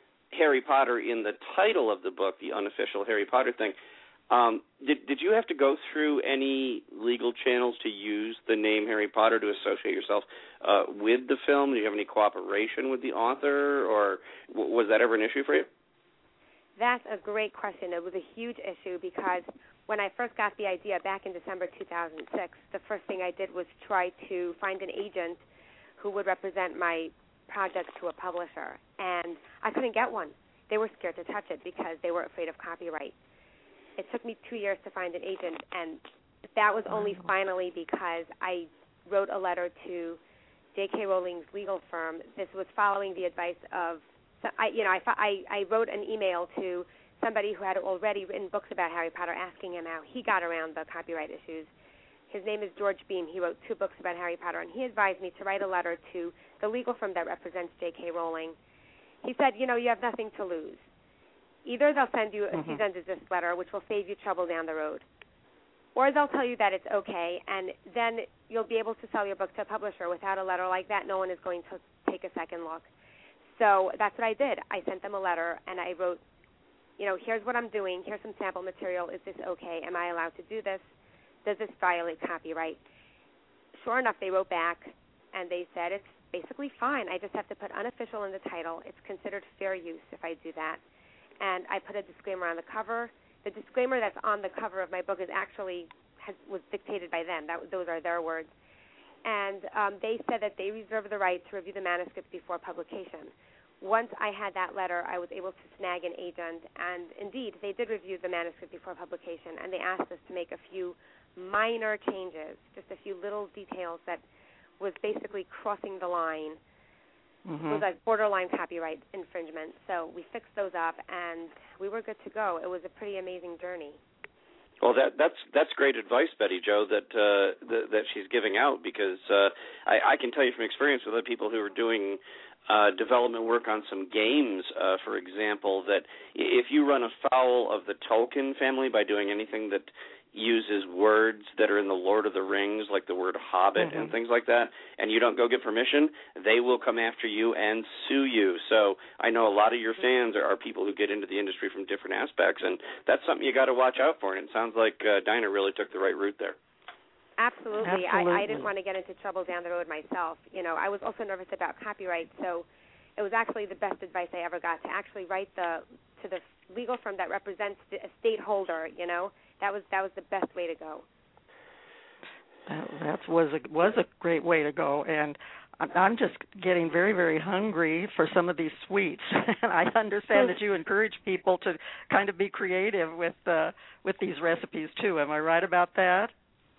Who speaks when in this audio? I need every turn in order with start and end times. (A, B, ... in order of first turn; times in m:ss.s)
0:00.3-0:03.8 A
0:04.3-0:15.7 A
0:16.8-0:25.4 B
0:26.0-0:33.2 B
0:34.0-0:36.0 B
0:36.6-0:40.2 B
0:36.9-0:37.3 C
0:40.8-0:51.7 B
0:52.3-0:58.6 B
0:59.2-1:00.8 B
1:01.6-1:05.0 B
1:02.5-1:02.8 C
1:06.0-1:12.9 B
1:13.6-1:16.2 B
1:17.0-1:20.9 B
1:21.4-1:22.8 B
1:23.8-1:30.8 B
1:31.4-1:38.5 B
1:39.2-1:54.2 B
1:54.8-1:56.6 B
1:57.5-1:57.8 C
1:57.7-2:04.0 B
2:04.8-2:36.6 A
2:23.8-2:24.2 C
2:37.4-2:51.0 B
2:37.8-2:38.7 C
2:52.7-3:06.3 C